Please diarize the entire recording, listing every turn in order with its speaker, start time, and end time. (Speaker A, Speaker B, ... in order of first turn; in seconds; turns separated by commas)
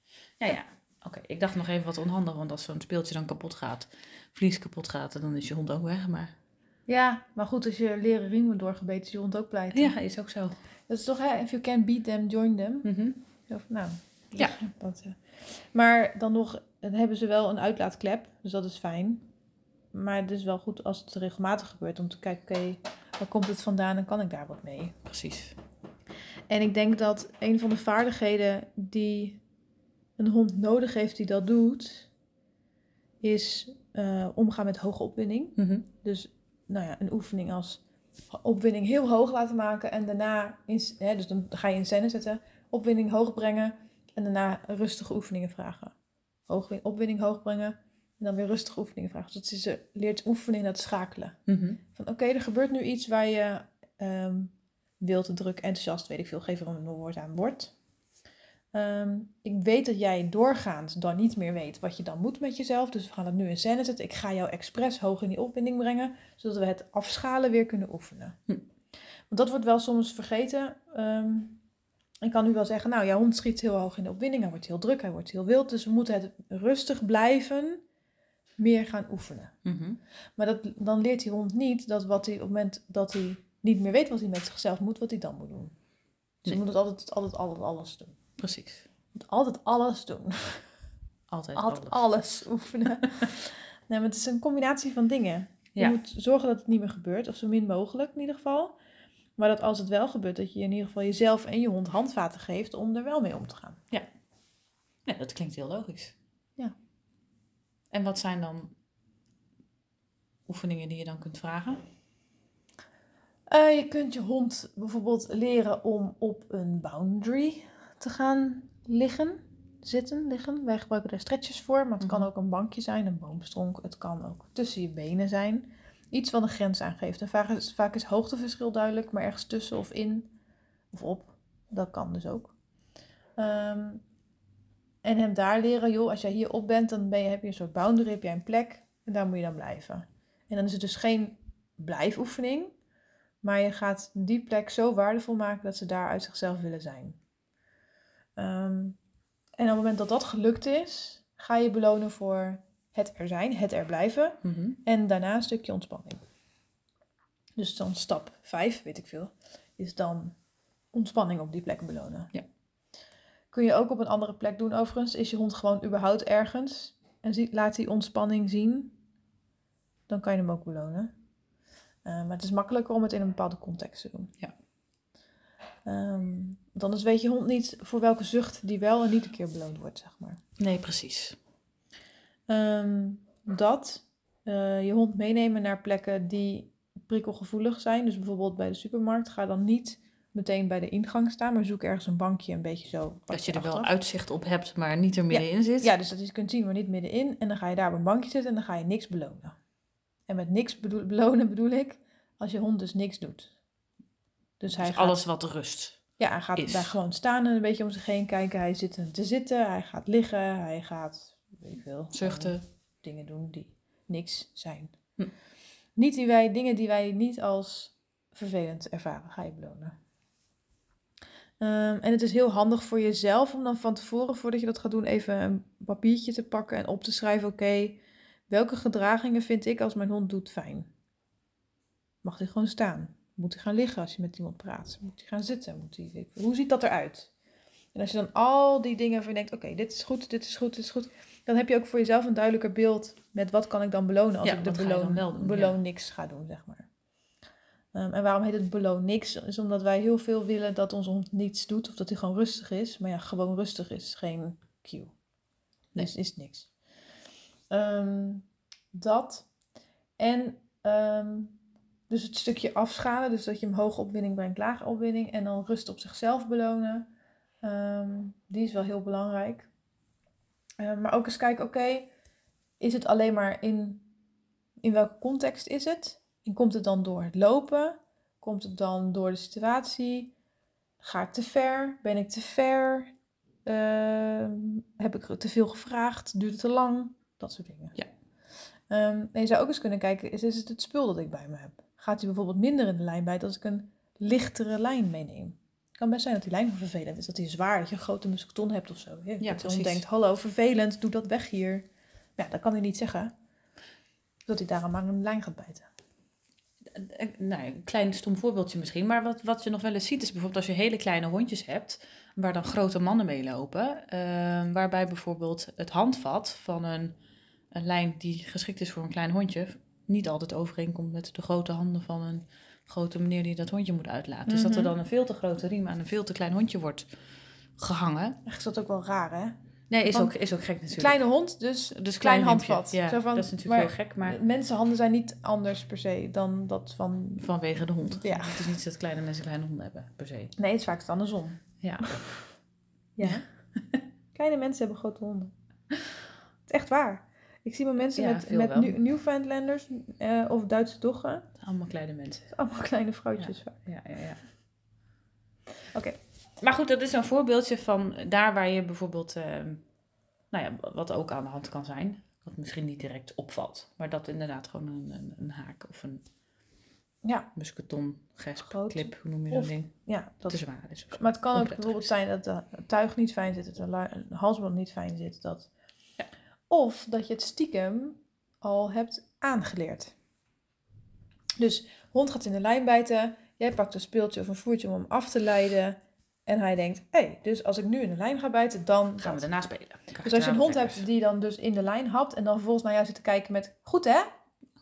Speaker A: 0.4-6.3, Speaker B: 6.9-9.9, Speaker A: 9.7-10.6, Speaker B: 10.9-12.9, Speaker A: 12.8-13.2, Speaker B: 13.5-19.2, Speaker B: 19.9-25.0, Speaker A: 25.1-25.6, Speaker B: 26.5-29.4, Speaker B: 30.2-32.1, Speaker B: 33.2-45.9, Speaker A: 35.6-35.9, Speaker B: 46.5-51.4, Speaker A: 51.5-51.8, Speaker B: 51.9-57.7, Speaker B: 58.7-68.4, Speaker B: 69.3-71.6, Speaker B: 72.2-77.8, Speaker B: 78.6-79.5, Speaker A: 79.6-80.0, Speaker B: 80.4-85.7, Speaker B: 86.4-88.2, Speaker A: 88.4-88.8, Speaker B: 89.1-90.6, Speaker A: 91.3-92.1, Speaker B: 91.5-98.7, Speaker B: 99.4-103.8, Speaker A: 105.0-106.1, Speaker A: 107.9-108.7, Speaker A: 110.5-111.8, Speaker B: 113.5-130.3, Speaker A: 122.0-122.3, Speaker B: 130.9-132.5, Speaker B: 133.4-134.0, Speaker B: 135.0-142.7, Speaker B: 143.4-147.2, Speaker B: 148.4-149.0, Speaker B: 149.6-156.2, Speaker A: 154.4-154.8, Speaker B: 157.6-160.3, Speaker B: 160.9-162.3, Speaker B: 163.5-168.9, Speaker B: 170.1-171.1, Speaker B: 172.0-174.3, Speaker B: 175.8-180.4, Speaker A: 180.6-181.4, Speaker B: 182.5-193.9, Speaker A: 193.3-195.9, Speaker B: 195.3-199.5, Speaker B: 200.3-203.5, Speaker B: 204.6-205.2, Speaker A: 204.7-206.0, Speaker B: 206.2-214.9, Speaker A: 206.6-206.9, Speaker A: 212.1-212.6, Speaker B: 215.9-219.9, Speaker B: 221.6-230.9, Speaker B: 232.2-237.3, Speaker B: 237.9-246.9, Speaker A: 244.4-245.8, Speaker B: 247.9-255.1, Speaker B: 255.9-256.7, Speaker B: 257.7-259.5, Speaker B: 260.2-261.6, Speaker B: 262.1-267.1, Speaker B: 267.6-269.7, Speaker B: 270.8-272.1, Speaker B: 272.8-274.0, Speaker B: 274.8-280.3, Speaker B: 281.0-283.1, Speaker B: 283.6-288.0, Speaker B: 288.9-301.9, Speaker A: 299.4-300.0, Speaker B: 302.4-303.3, Speaker B: 304.4-305.9, Speaker A: 306.9-317.2, Speaker A: 317.7-327.1, Speaker B: 324.4-324.9, Speaker A: 327.8-328.4, Speaker B: 328.4-329.6, Speaker A: 329.9-331.2, Speaker B: 330.1-330.3, Speaker B: 330.9-337.5, Speaker A: 331.9-334.4, Speaker A: 337.4-340.5, Speaker B: 338.1-338.7, Speaker B: 340.6-342.2, Speaker A: 341.8-342.2, Speaker B: 343.1-343.4, Speaker A: 343.2-344.0, Speaker B: 344.3-345.5, Speaker B: 346.7-351.5, Speaker A: 348.1-349.0, Speaker A: 351.6-352.5, Speaker B: 352.5-353.8, Speaker A: 353.4-354.4, Speaker A: 356.6-359.8, Speaker A: 360.5-366.2, Speaker B: 367.2-367.5, Speaker A: 367.5-369.9, Speaker B: 368.6-370.6, Speaker A: 370.5-372.1, Speaker B: 371.1-375.7, Speaker B: 376.7-380.1, Speaker B: 381.6-389.4, Speaker A: 389.2-391.1, Speaker B: 390.2-394.3